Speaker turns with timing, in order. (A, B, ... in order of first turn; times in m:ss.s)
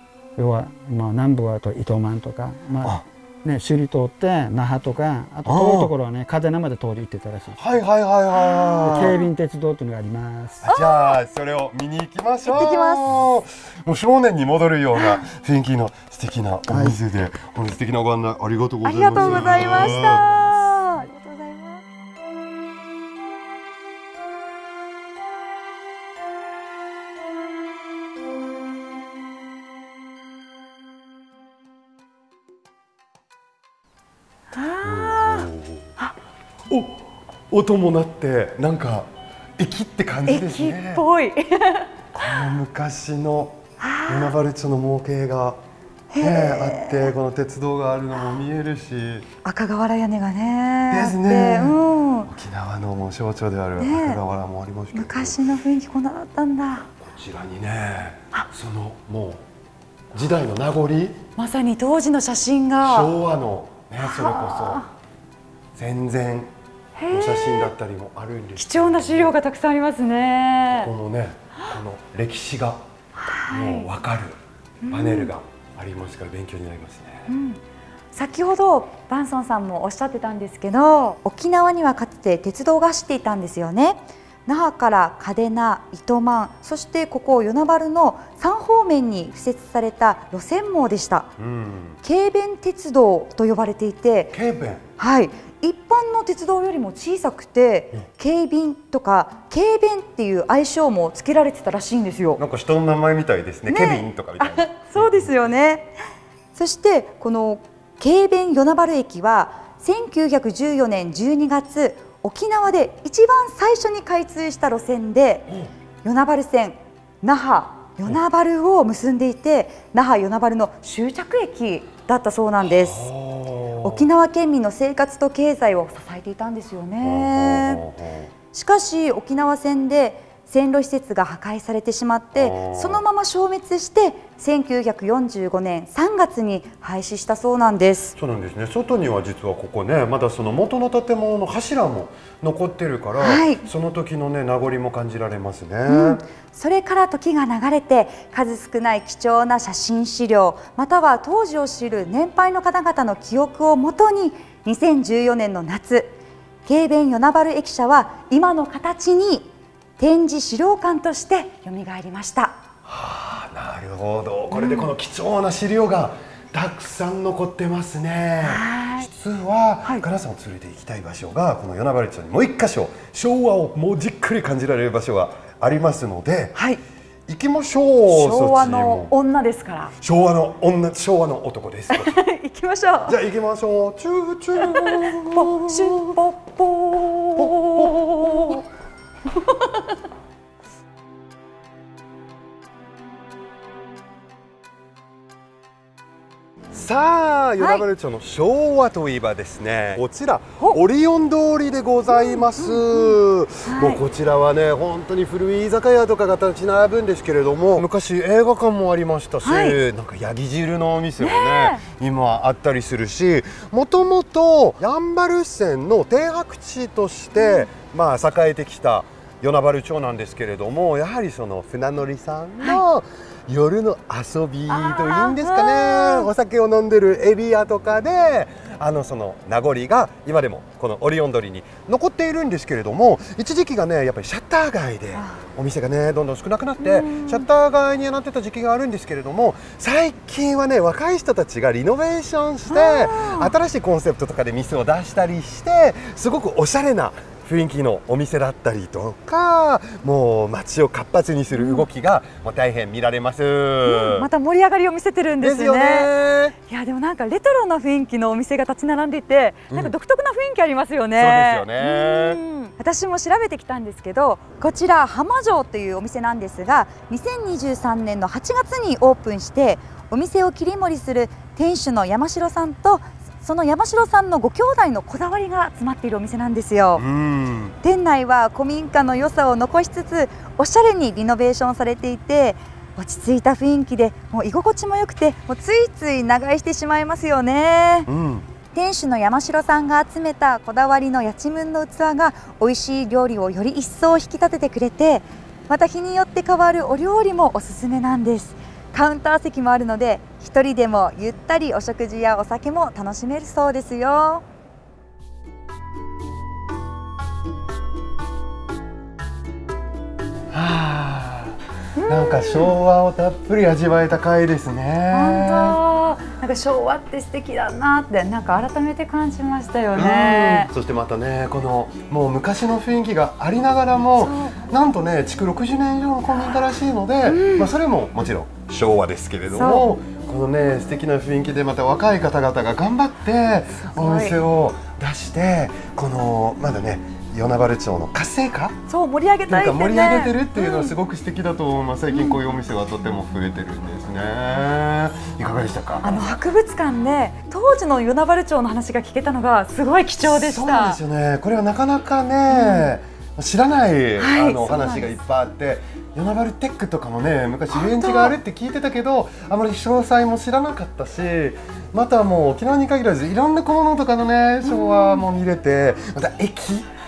0:00.4-0:07.7 A
0:05.4-0:05.9 B
0:07.6-0:09.2 B
0:08.3-0:09.3 C
0:08.8-0:10.6 A
0:10.6-0:20.2 B
0:10.6-0:11.2 C
0:12.4-0:13.0 C
0:14.9-0:15.2 C
0:16.7-0:17.0 A
0:18.8-0:21.8 C
0:34.5-0:36.1 C
0:34.8-0:35.9 B
0:36.7-0:41.0 B
0:40.2-0:42.5 C
0:42.1-0:45.6 B
0:43.8-0:44.4 C
0:46.1-0:47.1 C
0:46.2-0:49.3 B
0:49.4-0:52.3 C
0:50.9-0:55.4 B
0:53.8-0:54.2 C
0:54.9-0:56.9 C
0:57.0-0:59.4 B
1:00.1-1:01.2 B
1:01.4-1:03.1 C
1:02.8-1:04.8 B
1:04.0-1:04.9 C
1:05.8-1:06.5 B
1:07.0-1:07.7 C
1:07.1-1:09.3 B
1:08.6-1:10.9 C
1:10.7-1:12.8 B
1:13.2-1:13.9 C
1:13.5-1:14.4 B
1:14.8-1:15.3 C
1:14.9-1:17.3 B
1:17.3-1:17.6 C
1:18.1-1:31.3 C
1:31.4-1:32.0 B
1:32.0-1:34.4 C
1:34.3-1:34.8 B
1:35.0-1:42.4 C
1:42.4-1:45.4 B
1:43.7-1:45.9 C
1:46.6-1:55.5 C
1:56.0-2:03.1 C
2:02.6-2:04.1 B
2:03.8-2:07.8 C
2:07.0-2:08.3 B
2:08.5-2:18.1 C
2:12.3-2:13.0 B
2:18.2-2:26.2 B
2:23.2-2:23.6 C
2:25.8-2:36.1 C
2:36.6-2:42.6 C
2:42.8-2:56.6 B
2:44.5-2:44.9 C
2:48.4-2:49.1 C
2:56.5-2:56.8 C
2:57.3-2:59.1 B
2:58.1-2:59.9 C
3:00.0-3:02.1 B
3:01.9-3:03.2 C
3:03.1-3:06.0 B
3:04.6-3:08.6 C
3:07.4-3:08.6 B
3:09.3-3:09.8 C
3:16.7-4:14.3 B
3:17.6-3:17.8 C
3:22.1-3:24.0 C
3:29.4-3:29.8 C
3:31.2-3:31.8 C
3:37.4-3:37.7 C
3:44.7-3:46.3 C
3:55.1-3:55.4 C
3:56.8-3:57.5 C
4:02.7-4:03.5 C
4:11.5-4:11.8 C
4:13.8-4:16.1 C
4:15.4-4:16.5 B
4:16.7-4:37.0 C
4:21.2-4:22.4 B
4:37.0-4:37.8 B
4:37.8-4:48.1 C
4:48.1-4:48.5 B
4:48.7-5:04.4 C
5:10.5-5:15.8 B
5:12.0-5:12.8 C
5:15.1-5:20.7 C
5:19.9-5:38.8 B
5:24.2-5:24.6 C
5:27.2-5:27.7 C
5:29.5-5:29.9 C
5:33.8-5:34.4 C
5:38.9-5:41.0 C
5:39.5-5:46.2 B
5:42.1-5:42.4 C
5:46.0-5:51.0 C
5:50.2-6:06.9 B
5:52.5-5:52.9 C
5:54.2-5:55.2 C
5:57.7-5:58.4 C
6:04.6-6:05.3 C